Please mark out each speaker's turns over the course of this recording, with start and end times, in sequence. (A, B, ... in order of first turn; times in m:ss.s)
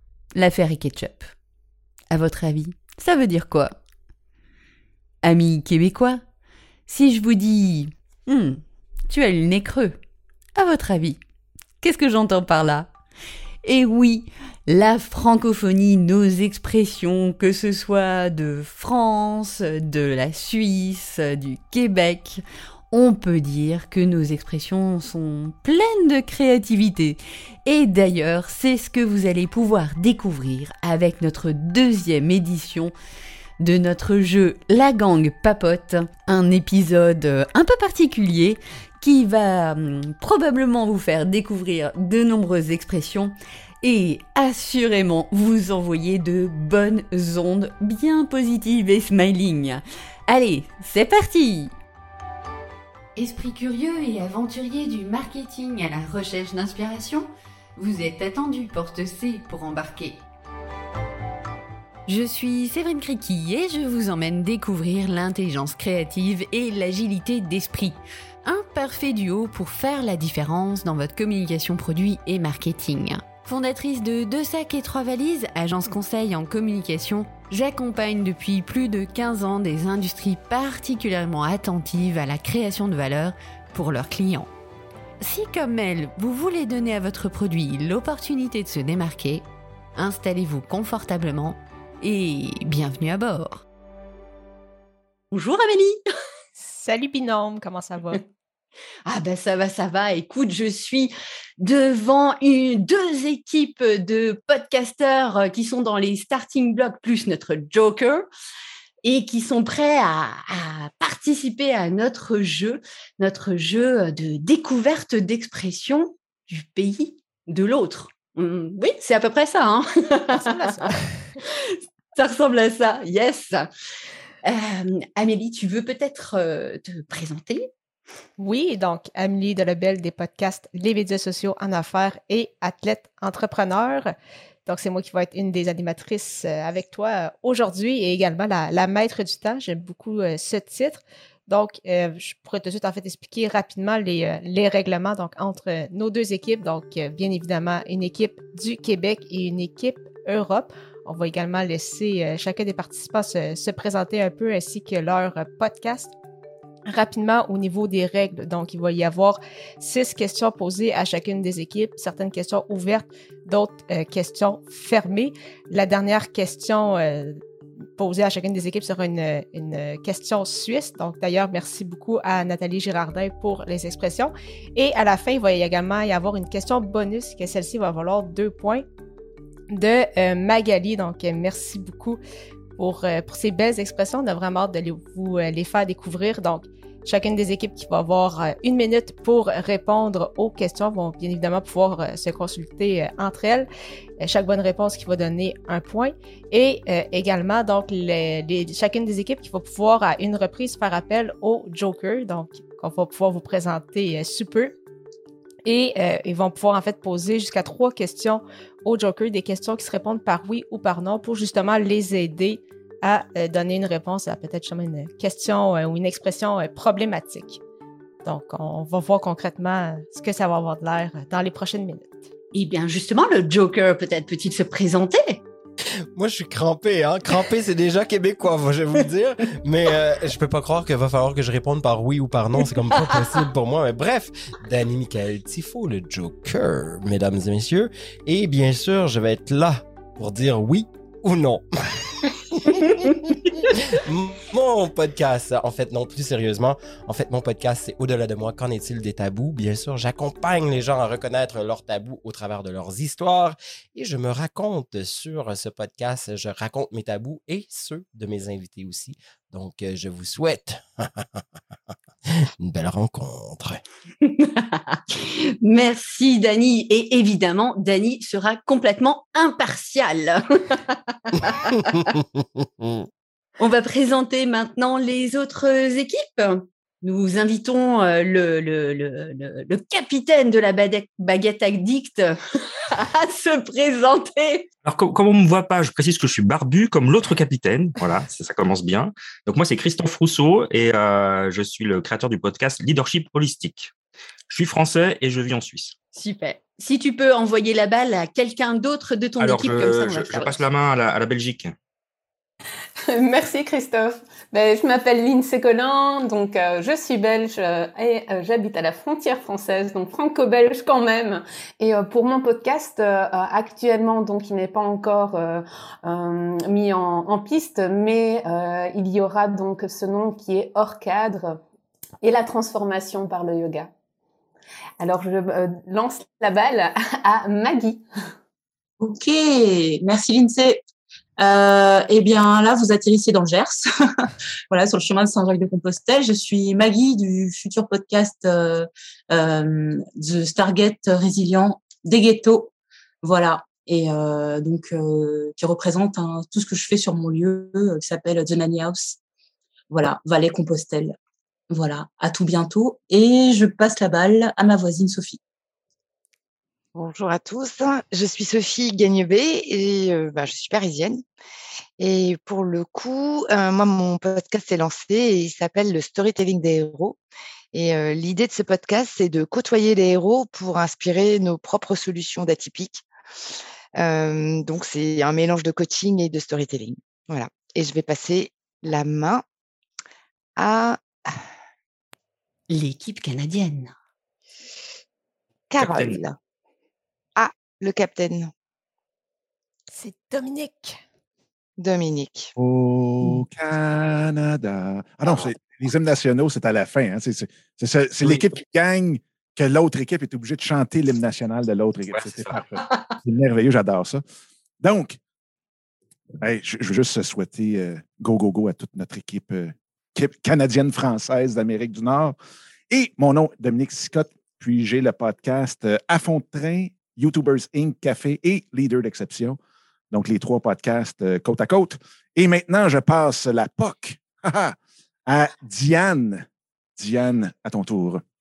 0:00.3-0:01.3 A
0:02.1-0:03.8 A
0:05.2-0:06.2 A
0:06.9-0:10.0 A
0:10.6-0:11.2 A
0:11.8-0:12.9 A
0:13.6-0:32.9 A
0:33.6-0:51.7 A
0:53.2-1:00.2 A
1:02.1-1:24.5 A
1:25.2-1:29.4 A
1:30.0-1:33.6 A
1:35.3-1:36.0 A
1:36.6-1:38.2 B
1:39.0-1:48.2 A
1:49.0-2:00.9 A
2:00.3-2:01.0 B
2:01.4-2:03.7 A
2:04.4-2:07.7 A
2:08.4-2:14.1 B
2:14.6-2:36.1 B
2:36.9-2:47.4 B
2:48.0-2:58.8 B
2:59.7-3:02.2 B
3:02.8-3:13.7 B
3:14.2-3:24.7 B
3:25.6-3:37.6 B
3:38.2-3:42.3 B
3:42.5-3:45.4 A
3:46.1-4:01.6 C
4:02.6-4:21.4 C
4:22.6-4:23.8 C
4:24.2-4:32.1 A
4:32.2-4:33.0 C
4:33.6-4:42.4 A
4:42.9-4:44.7 A
4:44.8-4:53.9 D
4:54.5-4:55.9 D
4:56.1-5:00.6 A
4:59.4-5:01.7 D
5:03.1-5:21.6 E
5:22.2-5:23.9 E
5:25.0-5:28.0 E
5:29.0-5:30.8 F
5:31.4-5:49.2 F
5:49.9-5:51.2 F
5:51.7-5:55.4 F
5:56.9-6:01.2 G
6:02.0-6:07.2 G
6:07.7-6:13.0 G
6:14.0-6:19.4 G
6:20.6-6:21.4 G
6:22.7-6:23.9 A
6:25.7-6:26.4 G
6:25.8-6:26.2 D
6:27.4-6:28.5 G
6:29.9-6:31.0 B
6:31.8-6:32.5 G
6:32.6-6:44.2 H
6:38.2-6:38.5 D
6:42.1-6:42.6 D
6:44.8-6:45.2 H
6:46.4-6:52.4 H
6:52.9-6:59.6 H
7:00.1-7:04.8 H
7:05.3-7:06.4 H
7:07.0-7:08.2 H